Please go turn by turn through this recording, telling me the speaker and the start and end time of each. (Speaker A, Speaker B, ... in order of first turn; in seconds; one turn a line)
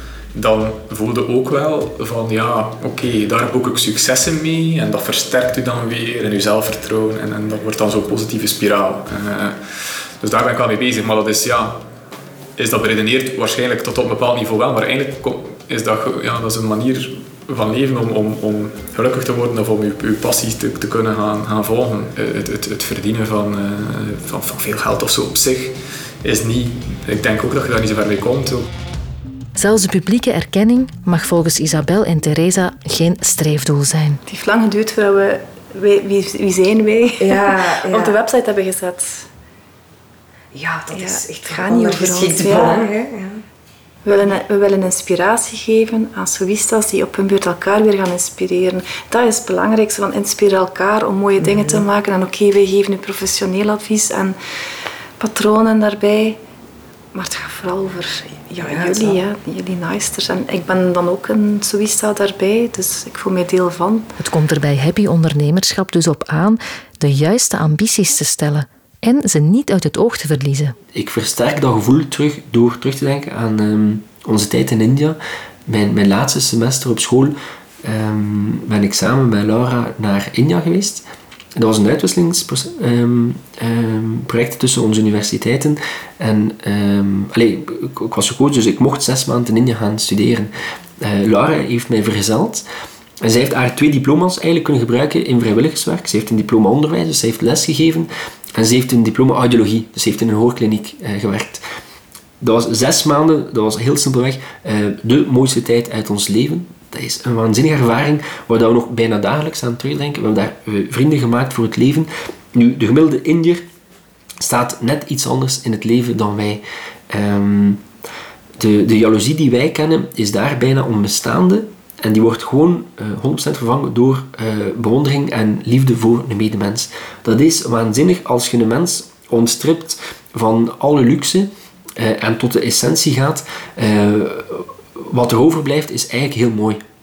Speaker A: 0.3-9.6
Speaker A: 10.2-11.8
Speaker A: 12.6-28.7
Speaker B: 29.6-34.2
Speaker C: 34.3-39.2
Speaker D: 37.2-38.2
Speaker D: 40.5-43.4
Speaker C: 40.9-42.9
Speaker C: 44.0-54.4
Speaker D: 51.4-51.8
Speaker C: 55.2-56.4
Speaker C: 57.1-64.1
Speaker D: 58.6-59.2
Speaker B: 64.2-70.8
Speaker E: 70.9-92.7
Speaker E: 93.2-101.6
Speaker E: 102.4-113.6
Speaker E: 114.4-117.8
Speaker E: 118.6-136.8